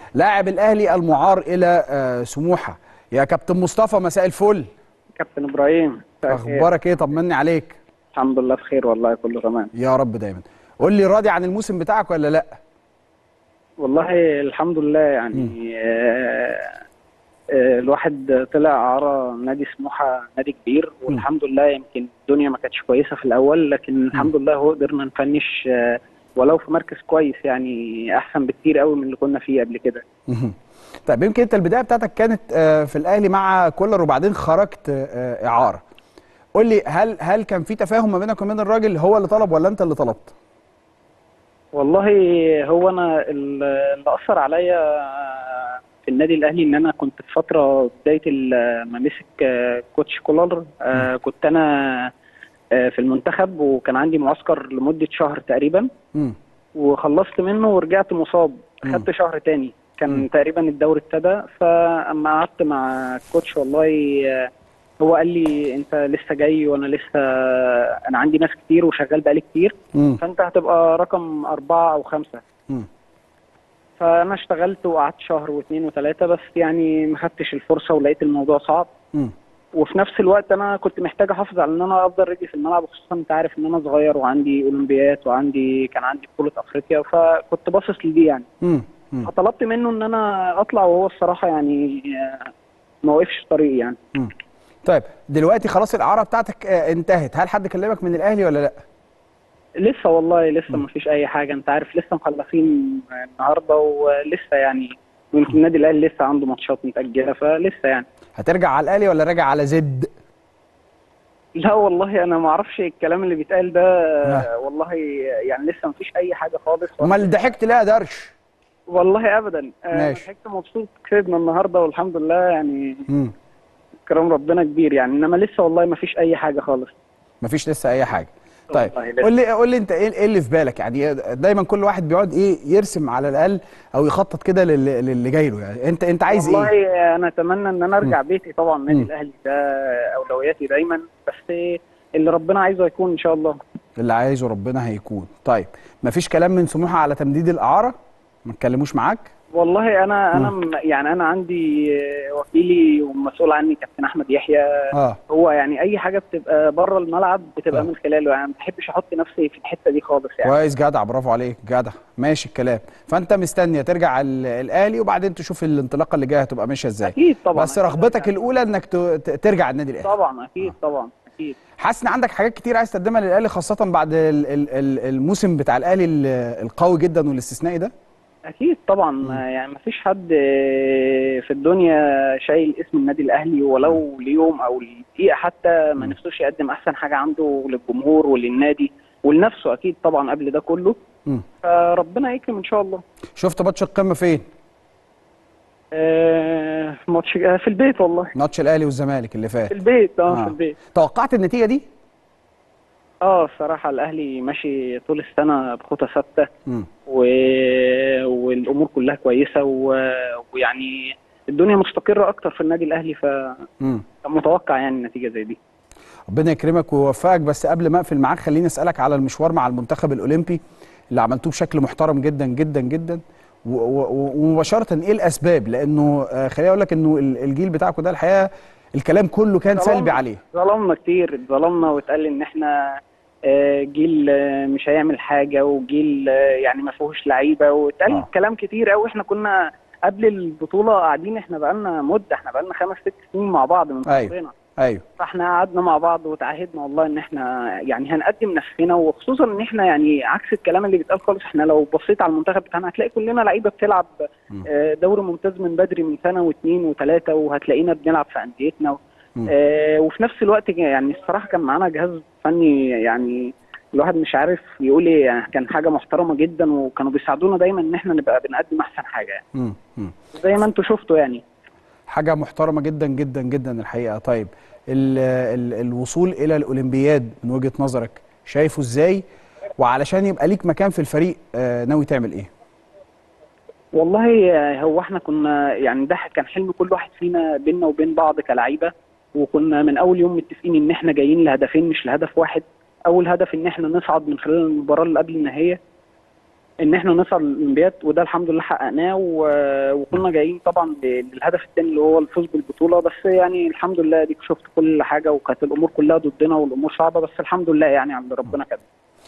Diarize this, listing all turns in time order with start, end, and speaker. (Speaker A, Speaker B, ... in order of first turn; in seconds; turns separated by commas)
Speaker A: 0.2-4.7, Speaker B: 5.2-6.7, Speaker A: 6.3-7.8, Speaker B: 8.2-9.7, Speaker A: 9.8-12.6, Speaker B: 13.8-16.8, Speaker B: 17.5-30.0, Speaker A: 30.3-30.6, Speaker A: 31.1-35.8, Speaker A: 36.5-40.3, Speaker B: 41.7-52.1, Speaker B: 52.8-55.9, Speaker B: 56.8-72.4, Speaker A: 69.9-70.2, Speaker B: 74.0-78.9, Speaker B: 79.7-88.5, Speaker A: 88.6-89.3, Speaker B: 89.2-92.5, Speaker B: 93.0-94.0, Speaker A: 94.8-98.8, Speaker B: 99.8-108.1, Speaker A: 108.4-110.1, Speaker B: 111.6-117.3, Speaker A: 117.0-118.3, Speaker B: 118.9-123.1, Speaker A: 119.9-120.2, Speaker B: 124.1-126.9, Speaker A: 127.4-136.7, Speaker B: 128.7-129.3, Speaker B: 136.3-143.6, Speaker A: 144.0-147.9, Speaker A: 148.5-149.3, Speaker B: 149.6-160.6, Speaker A: 154.9-155.2, Speaker A: 160.4-170.1, Speaker B: 167.0-168.4, Speaker B: 170.0-171.6, Speaker A: 171.8-177.9, Speaker B: 178.5-191.0, Speaker B: 191.6-193.0, Speaker A: 193.4-194.4, Speaker B: 195.9-198.3, Speaker A: 198.3-199.8, Speaker B: 199.7-200.8, Speaker A: 200.3-201.8, Speaker B: 203.2-206.5, Speaker B: 207.1-213.7, Speaker B: 214.2-215.6, Speaker A: 216.3-220.6, Speaker A: 221.1-230.4, Speaker B: 229.8-244.5, Speaker A: 244.1-245.0, Speaker B: 245.2-254.1, Speaker B: 254.6-269.4, Speaker A: 269.6-270.1, Speaker B: 270.4-271.4, Speaker A: 272.1-279.2, Speaker A: 279.8-282.5, Speaker B: 283.9-295.8, Speaker B: 296.8-308.9